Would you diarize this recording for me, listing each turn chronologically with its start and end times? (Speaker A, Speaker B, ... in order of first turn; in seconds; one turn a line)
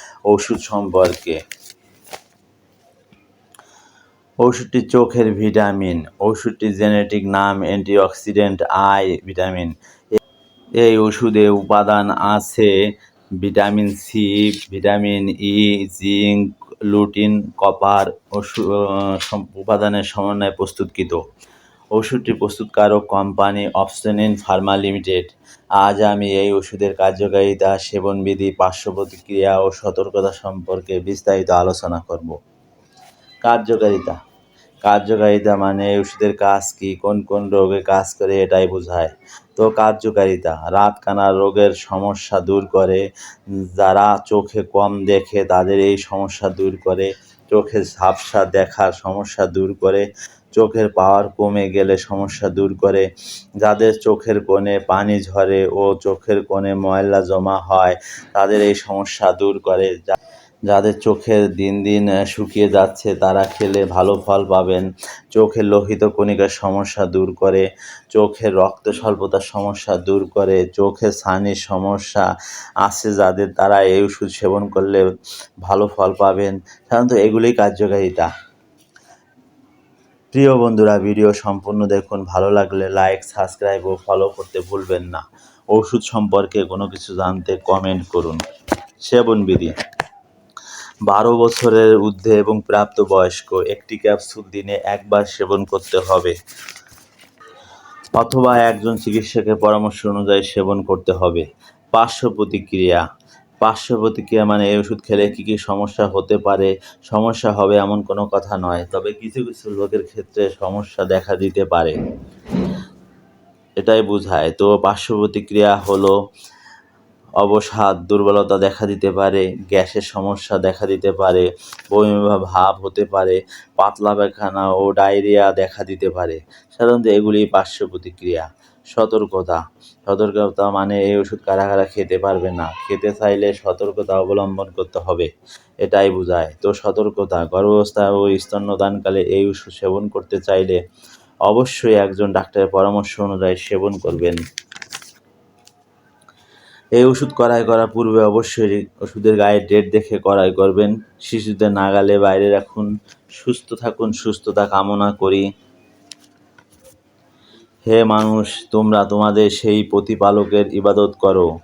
Speaker A: 0.3-1.4
Speaker A: 4.4-9.7
Speaker A: 10.8-12.8
Speaker A: 13.4-21.2
Speaker A: 21.9-32.4
Speaker A: 33.4-34.2
Speaker A: 34.8-43.0
Speaker A: 43.6-53.1
Speaker A: 53.6-60.1
Speaker A: 60.7-75.0
Speaker A: 75.6-78.3
Speaker A: 80.3-88.4
Speaker A: 89.0-89.7
Speaker A: 91.1-96.3
Speaker A: 98.2-103.0
Speaker A: 103.6-112.0
Speaker A: 113.8-116.2
Speaker A: 117.4-135.3
Speaker A: 135.8-140.8
Speaker A: 141.5-144.4
Speaker A: 147.0-155.5
Speaker A: 157.8-161.5